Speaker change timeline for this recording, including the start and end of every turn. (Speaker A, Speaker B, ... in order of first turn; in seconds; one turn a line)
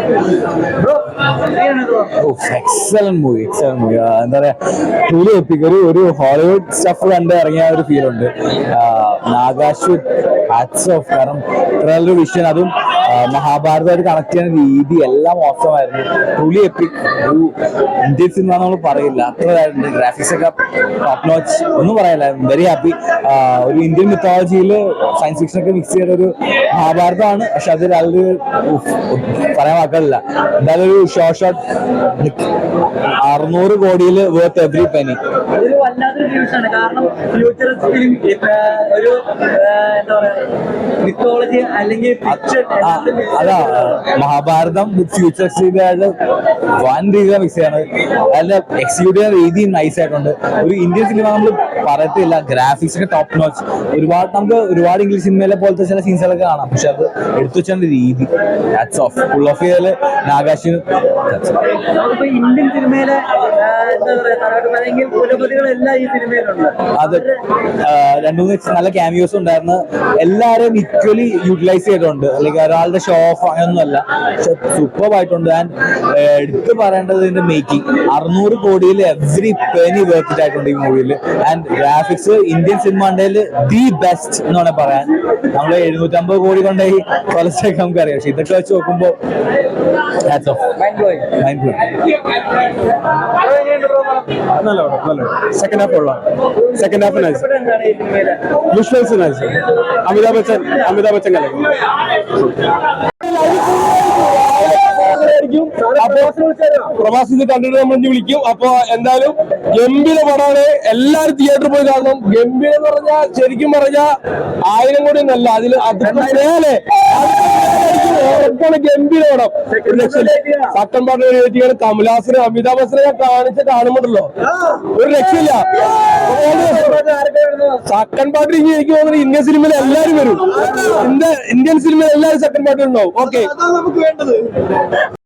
Speaker A: 1.5-2.1
Speaker B: 2.2-4.5
Speaker B: 5.1-17.5
Speaker B: 18.1-31.6
Speaker B: 33.2-35.2
Speaker A: 35.5-40.5
Speaker A: 41.0-43.9
Speaker B: 42.3-46.1
Speaker B: 46.8-61.6
Speaker A: 61.9-67.3
Speaker B: 67.0-67.2
Speaker B: 67.8-89.2
Speaker B: 90.2-90.6
Speaker A: 90.8-91.2
Speaker B: 91.4-91.8
Speaker A: 93.4-94.2
Speaker A: 96.6-98.4
Speaker C: 100.1-100.5
Speaker C: 103.2-106.3
Speaker A: 105.8-106.9
Speaker C: 107.0-114.1
Speaker C: 114.6-124.3
Speaker A: 116.0-116.4
Speaker A: 119.7-120.8
Speaker C: 125.0-127.0
Speaker A: 125.8-127.8
Speaker C: 127.8-133.5
Speaker A: 129.9-131.0